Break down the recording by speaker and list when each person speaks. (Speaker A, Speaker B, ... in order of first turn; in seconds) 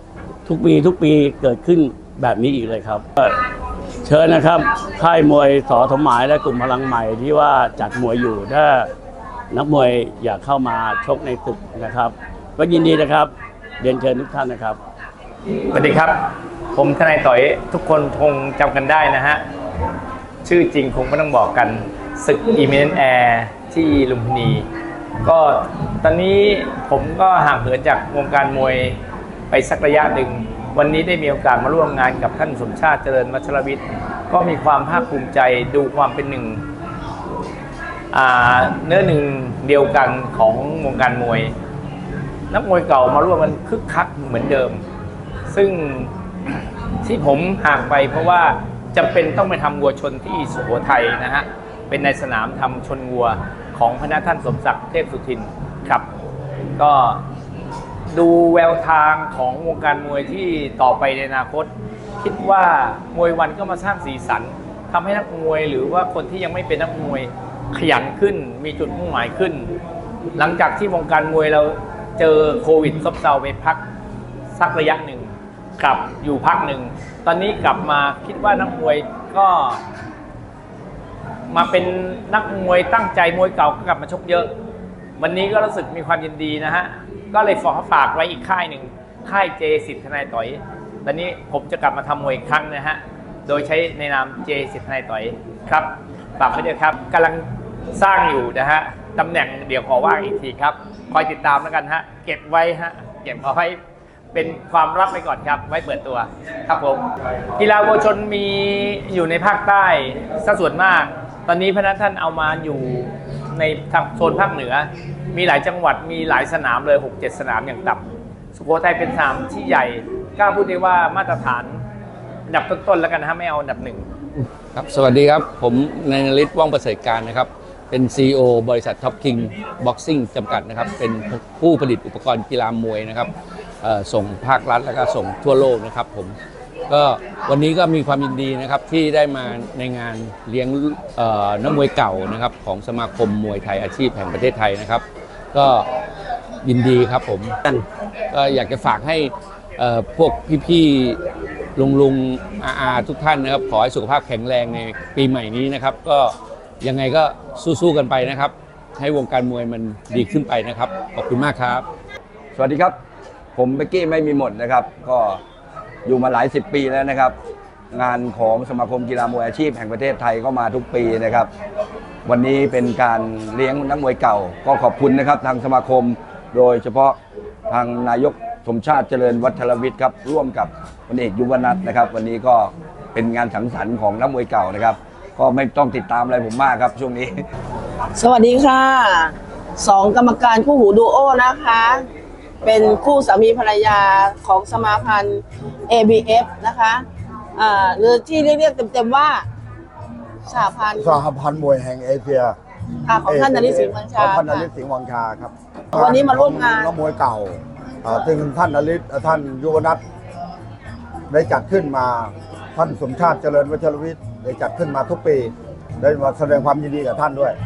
Speaker A: 0.4-3.4, 4.0-8.9, 9.5-14.8
Speaker B: 15.7-19.4, 20.4-24.7, 25.2-29.0, 29.5-36.6, 38.1-41.5, 42.5-44.8, 45.5-46.1, 47.0-56.1, 56.8-57.2, 58.1-69.7, 70.3-73.8, 74.5-79.8, 81.5-84.5, 85.2-103.8, 104.3-121.8, 122.5-124.1
Speaker C: 124.7-133.3, 133.8-136.3, 136.9-145.9, 146.6-147.5, 148.3-151.2, 151.8-161.9
Speaker D: 162.5-163.0, 163.5-165.4, 166.0-167.4, 167.9-171.5, 172.2-187.4
Speaker E: 188.1-192.0, 192.6-197.0, 197.6-199.4, 200.5-201.2, 203.1-204.7, 206.0-206.9
Speaker F: 201.0-202.6, 203.7-210.0, 211.3-217.6